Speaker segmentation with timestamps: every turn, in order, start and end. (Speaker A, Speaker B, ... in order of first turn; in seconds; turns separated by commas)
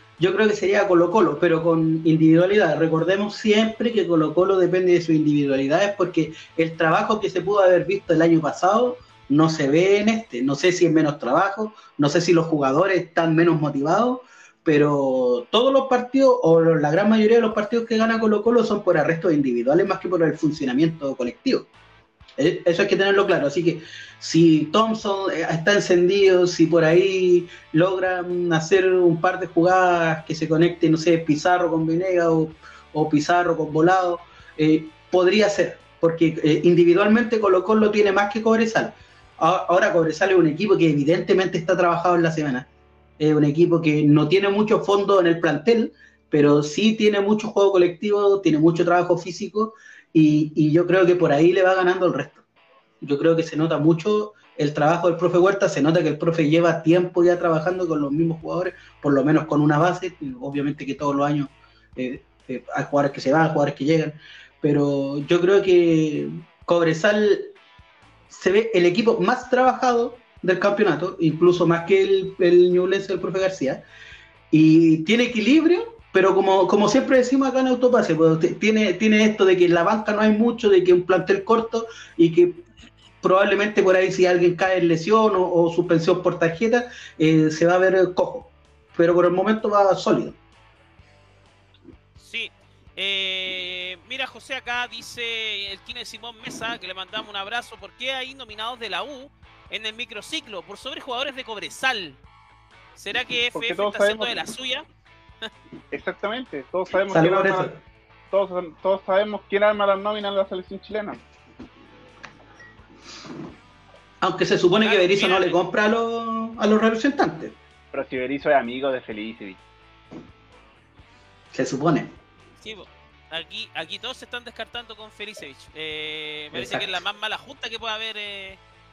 Speaker A: 0.2-21.7, Speaker A: 22.4-42.7, Speaker A: 43.2-52.4, Speaker A: 53.0-67.5, Speaker A: 68.3-73.8, Speaker A: 74.5-82.7, Speaker A: 83.2-90.4, Speaker B: 92.2-102.2, Speaker B: 103.0-104.9, Speaker C: 103.5-104.4, Speaker C: 105.9-107.7, Speaker A: 107.1-107.8, Speaker C: 108.3-111.2, Speaker A: 114.2-117.5, Speaker B: 114.8-115.6, Speaker C: 117.9-119.6, Speaker A: 121.5-122.1, Speaker B: 122.6-128.6, Speaker A: 126.5-126.9